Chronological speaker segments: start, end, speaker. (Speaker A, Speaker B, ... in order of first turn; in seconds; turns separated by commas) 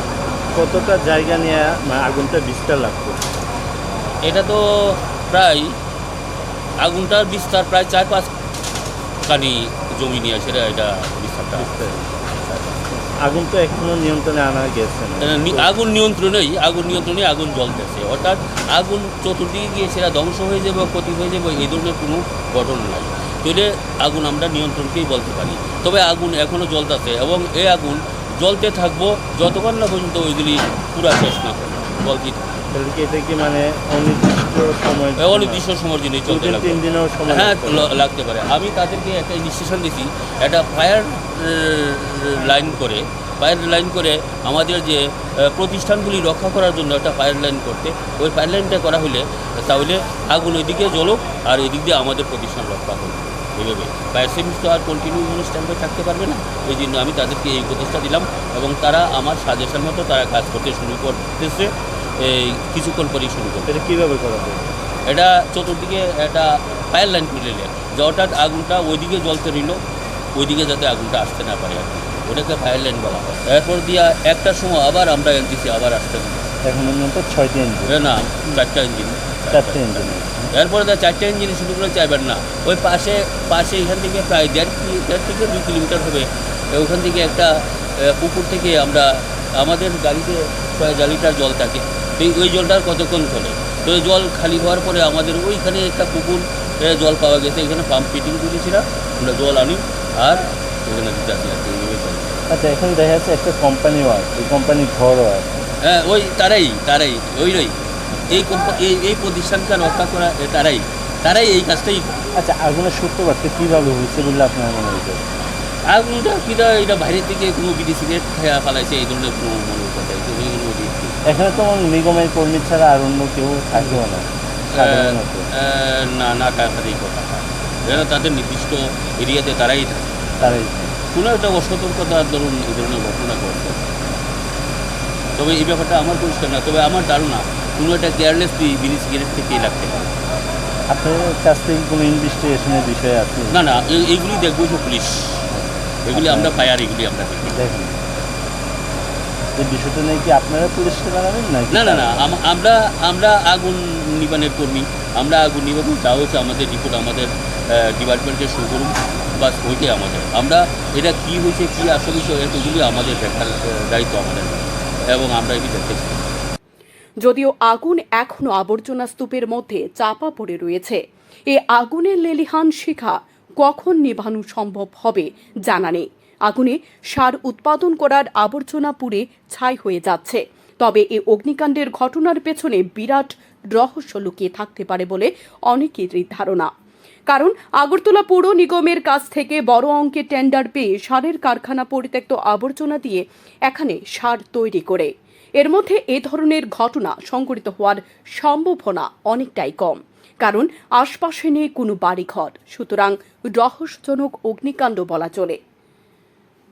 Speaker A: 0.6-3.2, Speaker B: 4.2-5.8, Speaker B: 6.8-8.3, Speaker B: 9.2-11.9, Speaker A: 11.6-15.7, Speaker B: 15.2-32.7, Speaker A: 32.7-35.6, Speaker B: 35.2-63.7, Speaker A: 36.3-38.0, Speaker A: 63.7-64.7, Speaker B: 65.1-69.8, Speaker B: 70.3-76.5, Speaker A: 76.7-77.9, Speaker B: 77.9-102.4, Speaker A: 79.5-80.5, Speaker A: 102.5-105.6, Speaker B: 105.8-107.8, Speaker B: 108.3-112.2, Speaker A: 112.3-115.3, Speaker B: 115.9-121.2, Speaker A: 121.2-125.5, Speaker B: 124.7-130.6, Speaker A: 130.4-131.0, Speaker B: 131.1-134.0, Speaker B: 135.4-140.1, Speaker A: 140.9-143.6, Speaker B: 143.5-145.5, Speaker A: 145.5-146.7, Speaker B: 146.1-147.7, Speaker A: 147.5-148.0, Speaker A: 149.6-152.4, Speaker B: 151.7-166.2, Speaker C: 167.2-186.7, Speaker C: 187.3-205.6